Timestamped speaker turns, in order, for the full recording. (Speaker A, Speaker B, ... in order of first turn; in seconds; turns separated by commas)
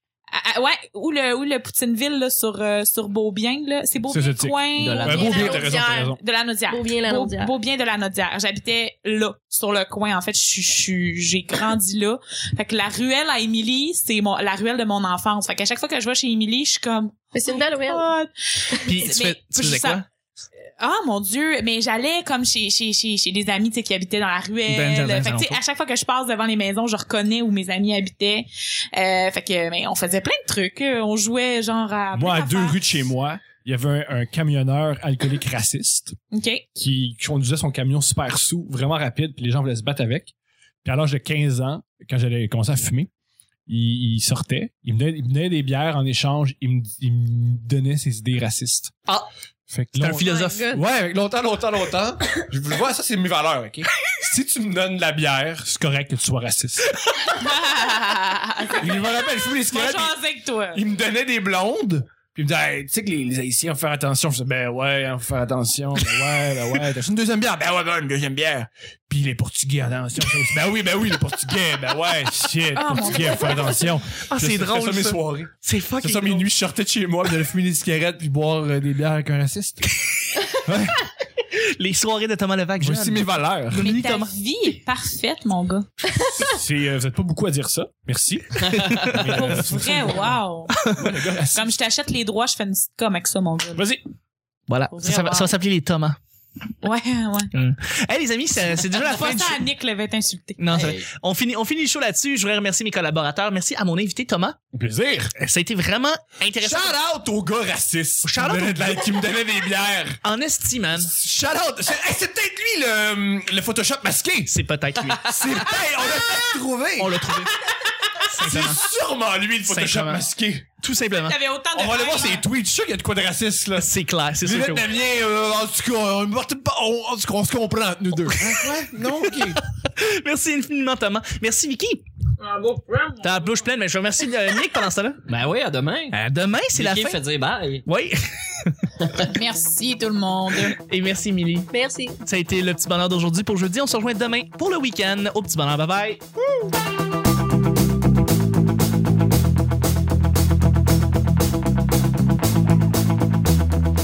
Speaker A: 0.3-20.0, Speaker B: 4.1-6.2, Speaker C: 4.8-5.5, Speaker D: 4.9-6.2, Speaker D: 6.7-7.5, Speaker D: 17.3-18.1, Speaker E: 18.9-20.1, Speaker A: 20.8-32.8, Speaker E: 24.7-25.6, Speaker B: 32.1-36.1, Speaker A: 36.3-36.6, Speaker B: 36.8-40.3, Speaker B: 40.8-43.1, Speaker B: 43.7-48.9, Speaker B: 49.7-56.9, Speaker E: 50.0-50.8, Speaker D: 50.2-50.8, Speaker A: 57.3-60.8, Speaker B: 58.7-60.1, Speaker B: 60.7-79.9, Speaker A: 72.8-73.9, Speaker E: 74.2-76.5, Speaker B: 80.6-81.0, Speaker E: 81.5-84.3, Speaker B: 82.8-83.9, Speaker A: 83.8-85.9, Speaker B: 86.1-91.7, Speaker E: 88.7-89.5, Speaker A: 89.3-90.7, Speaker E: 90.7-91.0, Speaker A: 91.5-93.8, Speaker B: 93.7-94.0, Speaker E: 94.7-96.2, Speaker A: 94.9-95.5, Speaker A: 96.8-97.5, Speaker E: 97.5-99.6, Speaker A: 98.9-100.6, Speaker E: 100.6-104.6, Speaker C: 100.7-101.1, Speaker B: 104.7-105.3, Speaker E: 105.4-106.9, Speaker B: 106.6-110.2, Speaker E: 108.2-109.0, Speaker E: 110.2-111.1, Speaker B: 110.9-114.5, Speaker E: 114.5-115.3, Speaker B: 115.2-120.7, Speaker E: 117.0-117.6, Speaker E: 118.3-118.8, Speaker E: 119.7-120.2, Speaker E: 120.8-121.4, Speaker A: 121.3-122.4, Speaker B: 121.7-123.9, Speaker E: 123.8-124.9, Speaker B: 124.4-129.6, Speaker E: 128.3-132.0, Speaker A: 132.4-133.2, Speaker E: 133.2-135.2, Speaker C: 135.3-136.2, Speaker E: 136.1-137.2, Speaker C: 136.7-137.8, Speaker E: 137.9-138.9, Speaker C: 139.0-139.3, Speaker A: 139.2-140.8, Speaker E: 140.7-141.7, Speaker D: 141.7-142.2, Speaker E: 142.2-146.3